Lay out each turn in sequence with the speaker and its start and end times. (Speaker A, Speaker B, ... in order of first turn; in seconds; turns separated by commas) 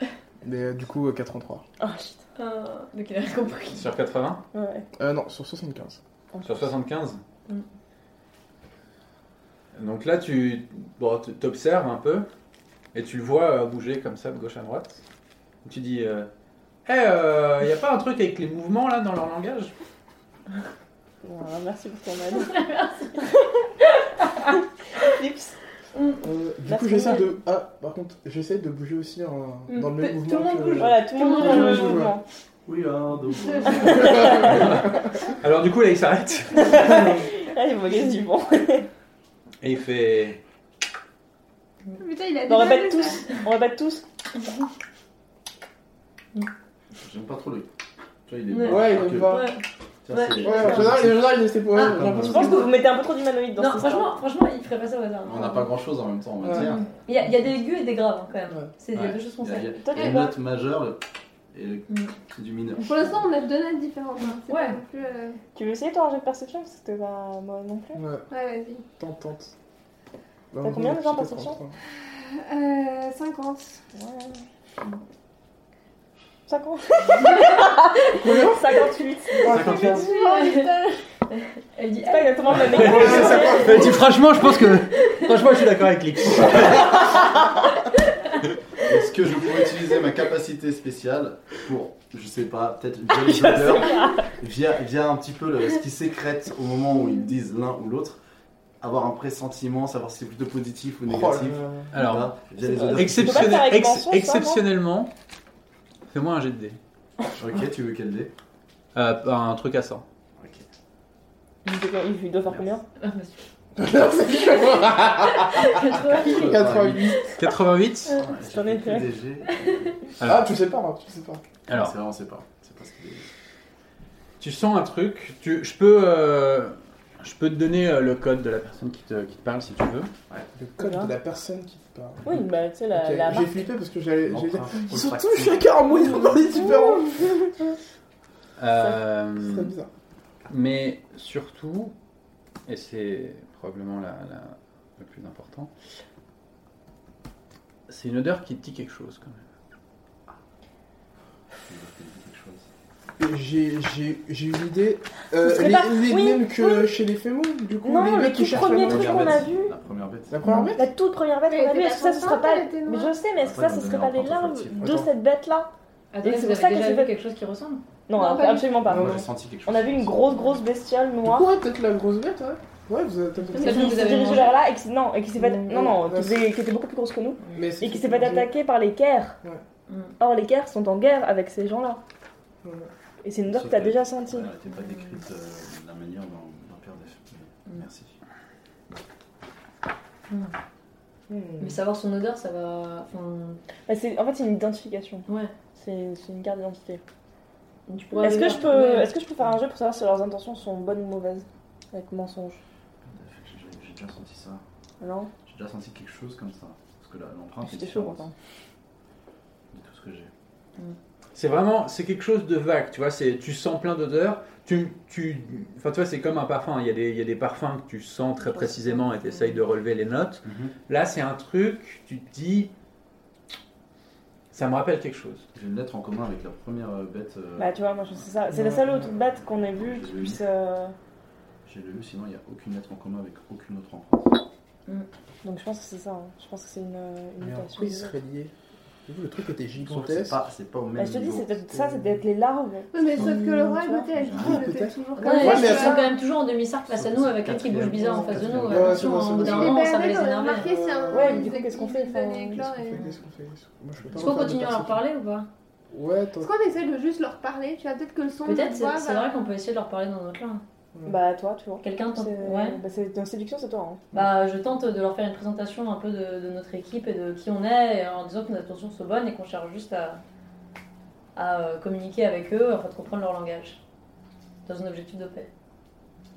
Speaker A: 0.4-1.7, Speaker B: 1.8-2.2, Speaker C: 2.4-3.9, Speaker D: 3.7-4.4, Speaker B: 4.5-4.9, Speaker A: 5.0-6.0, Speaker B: 6.3-6.7, Speaker D: 6.4-7.2, Speaker D: 9.7-12.3, Speaker D: 12.9-15.0, Speaker D: 15.6-16.3, Speaker D: 16.9-19.7, Speaker B: 21.2-22.5, Speaker C: 22.3-23.3, Speaker B: 23.2-23.7, Speaker B: 25.0-25.6, Speaker C: 25.9-26.2, Speaker A: 26.2-32.1, Speaker B: 26.7-27.3, Speaker C: 29.7-31.6, Speaker B: 30.8-32.2, Speaker E: 32.7-34.8, Speaker C: 33.6-34.5, Speaker B: 34.0-34.4, Speaker D: 34.4-34.7, Speaker D: 35.3-37.3, Speaker B: 36.5-38.9, Speaker D: 39.6-40.4, Speaker F: 42.0-43.3, Speaker B: 42.5-44.0, Speaker E: 47.0-47.7, Speaker E: 48.3-49.4, Speaker C: 48.5-51.0, Speaker A: 48.6-49.5, Speaker E: 50.0-52.6, Speaker A: 50.4-52.6, Speaker C: 51.7-52.8, Speaker B: 52.2-54.2, Speaker C: 53.6-55.7, Speaker E: 55.2-56.9, Speaker A: 56.4-56.7, Speaker C: 56.5-60.0, Speaker E: 58.9-61.0, Speaker B: 59.8-60.4, Speaker E: 61.5-63.3, Speaker F: 62.9-65.4, Speaker C: 64.5-64.8, Speaker B: 65.5-68.0, Speaker A: 68.0-68.3, Speaker F: 68.3-68.8, Speaker A: 68.9-69.5, Speaker A: 70.5-71.8, Speaker B: 70.6-71.6, Speaker F: 72.0-73.8, Speaker B: 74.0-75.0, Speaker B: 76.5-79.5, Speaker C: 77.2-77.6, Speaker A: 78.1-78.8, Speaker A: 79.4-80.0, Speaker D: 79.5-80.0, Speaker F: 79.7-81.0, Speaker C: 79.8-80.8, Speaker C: 81.4-85.4, Speaker B: 82.0-83.9, Speaker D: 82.5-87.4, Speaker A: 82.6-83.9, Speaker E: 88.8-98.2, Speaker B: 93.1-94.3, Speaker E: 98.8-103.7, Speaker A: 101.1-102.0, Speaker D: 101.9-105.1, Speaker B: 102.6-104.6, Speaker D: 106.1-106.8, Speaker E: 107.3-108.3, Speaker D: 109.0-110.0, Speaker E: 110.4-110.7, Speaker B: 111.7-112.8, Speaker C: 113.0-113.4, Speaker A: 113.8-117.3, Speaker C: 114.3-116.8, Speaker E: 116.0-117.2, Speaker D: 117.4-118.2, Speaker E: 118.1-120.1, Speaker B: 118.4-119.1, Speaker D: 120.2-120.6, Speaker A: 120.2-121.4, Speaker D: 121.7-122.0, Speaker E: 121.7-123.3, Speaker D: 124.4-130.1, Speaker A: 130.6-132.4, Speaker B: 130.8-131.1, Speaker B: 132.2-133.5, Speaker A: 132.9-137.5, Speaker E: 134.2-135.8, Speaker B: 136.6-137.1, Speaker D: 138.6-139.7, Speaker A: 139.2-139.9, Speaker D: 140.5-141.9, Speaker D: 142.7-145.7, Speaker D: 147.9-149.5, Speaker E: 151.5-152.7, Speaker A: 153.2-159.4, Speaker B: 155.4-157.0, Speaker B: 157.8-159.8, Speaker E: 158.5-160.4, Speaker A: 160.3-160.9, Speaker B: 160.5-165.7, Speaker F: 161.5-163.2, Speaker E: 163.3-165.0, Speaker A: 164.8-165.1, Speaker C: 166.1-167.8, Speaker B: 166.2-167.1, Speaker B: 168.1-171.5, Speaker F: 168.1-168.8, Speaker E: 168.8-170.5, Speaker A: 168.9-169.2, Speaker A: 171.2-173.7, Speaker C: 173.5-174.6, Speaker B: 173.5-179.4, Speaker F: 173.6-174.3, Speaker A: 175.4-176.4, Speaker A: 177.5-178.5, Speaker C: 179.9-180.2, Speaker B: 180.2-182.0, Speaker A: 182.6-182.9, Speaker B: 183.2-184.5, Speaker E: 183.5-188.2, Speaker C: 190.3-190.5, Speaker A: 191.3-191.7, Speaker C: 191.6-193.6, Speaker B: 193.9-197.0, Speaker C: 195.3-195.5, Speaker C: 197.9-199.1, Speaker B: 198.2-202.6, Speaker E: 203.1-204.6, Speaker B: 205.0-205.3, Speaker E: 205.5-208.2, Speaker B: 207.6-208.3, Speaker E: 209.7-210.3, Speaker D: 211.3-222.7, Speaker C: 218.6-219.2, Speaker E: 220.4-220.7, Speaker D: 224.5-225.5, Speaker E: 225.5-227.8, Speaker B: 227.6-230.9, Speaker A: 228.5-229.1, Speaker E: 229.8-230.4, Speaker E: 231.7-234.3, Speaker B: 235.4-238.2, Speaker A: 237.4-238.5, Speaker A: 239.1-240.4, Speaker E: 239.8-241.6, Speaker B: 241.0-244.1, Speaker A: 241.7-242.0, Speaker F: 242.9-246.1, Speaker E: 244.2-244.6, Speaker A: 244.3-245.9, Speaker B: 245.2-246.1, Speaker C: 245.2-250.7, Speaker E: 246.9-249.5, Speaker A: 248.1-249.9, Speaker F: 249.4-253.1, Speaker A: 250.6-251.4, Speaker B: 251.1-252.6, Speaker A: 252.6-255.0, Speaker C: 254.1-255.5, Speaker A: 255.9-256.5, Speaker F: 256.4-259.4, Speaker C: 258.4-260.6, Speaker B: 261.1-264.1, Speaker C: 261.8-262.8, Speaker C: 264.1-270.2, Speaker C: 271.4-273.8, Speaker C: 274.7-275.5